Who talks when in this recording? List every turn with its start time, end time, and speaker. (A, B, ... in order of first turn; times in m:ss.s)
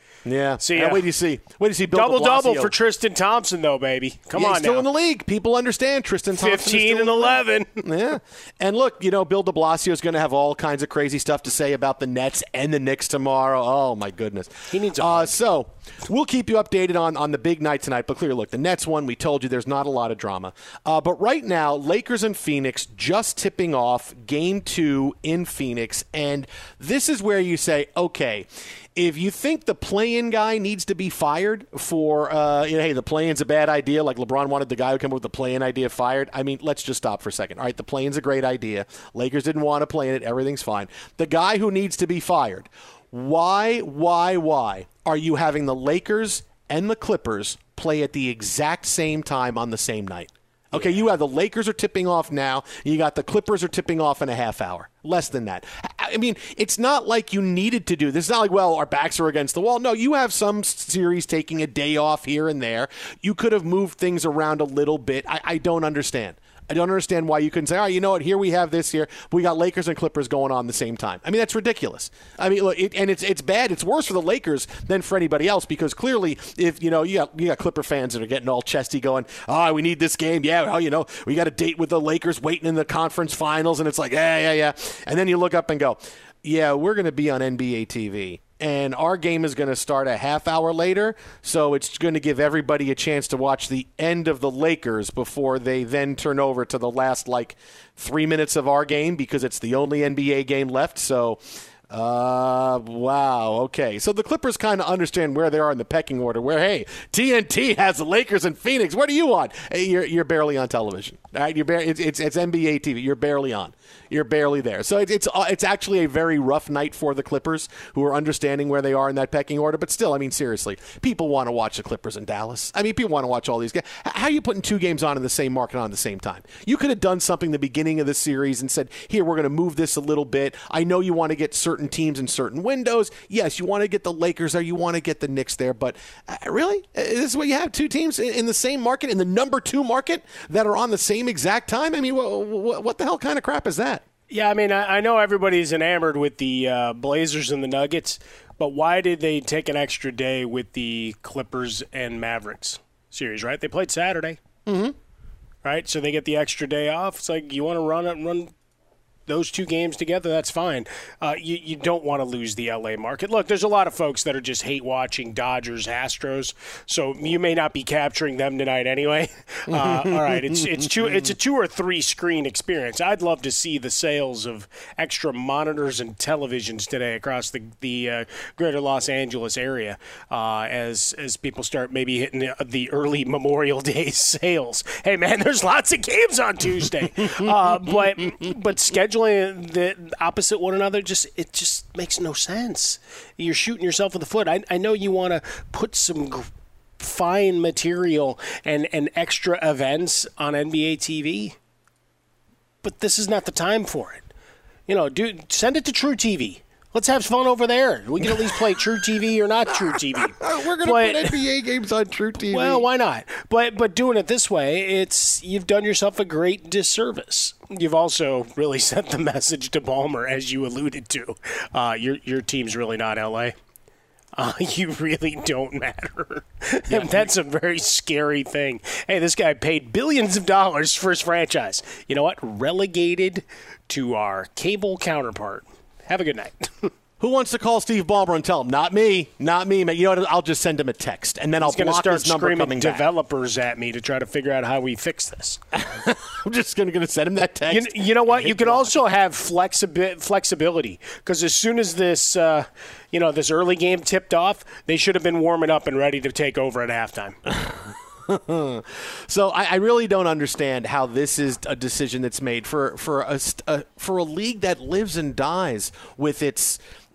0:00.2-0:02.7 A
0:00.6-0:01.0 B
0:01.9-0:04.9 B
0:04.4-2:24.0 A
0:06.4-0:07.8 B
0:14.7-0:15.4 B
0:50.7-0:51.0 B
2:24.3-2:34.4 B
2:34.7-2:34.9 A
2:35.6-2:38.5 B
2:39.3-3:16.5 B
2:49.7-2:51.3 A
3:17.0-3:21.6 B
3:22.8-3:24.3 B
3:24.9-3:31.4 B
3:28.2-3:28.5 A
3:29.8-3:32.9 A
3:32.5-3:43.6 B
3:44.4-3:56.9 B
3:46.9-3:47.3 A
3:57.2-4:03.0 A
4:01.6-4:05.6 B
4:05.7-4:09.0 A
4:07.7-4:17.4 B
4:17.5-4:26.8 A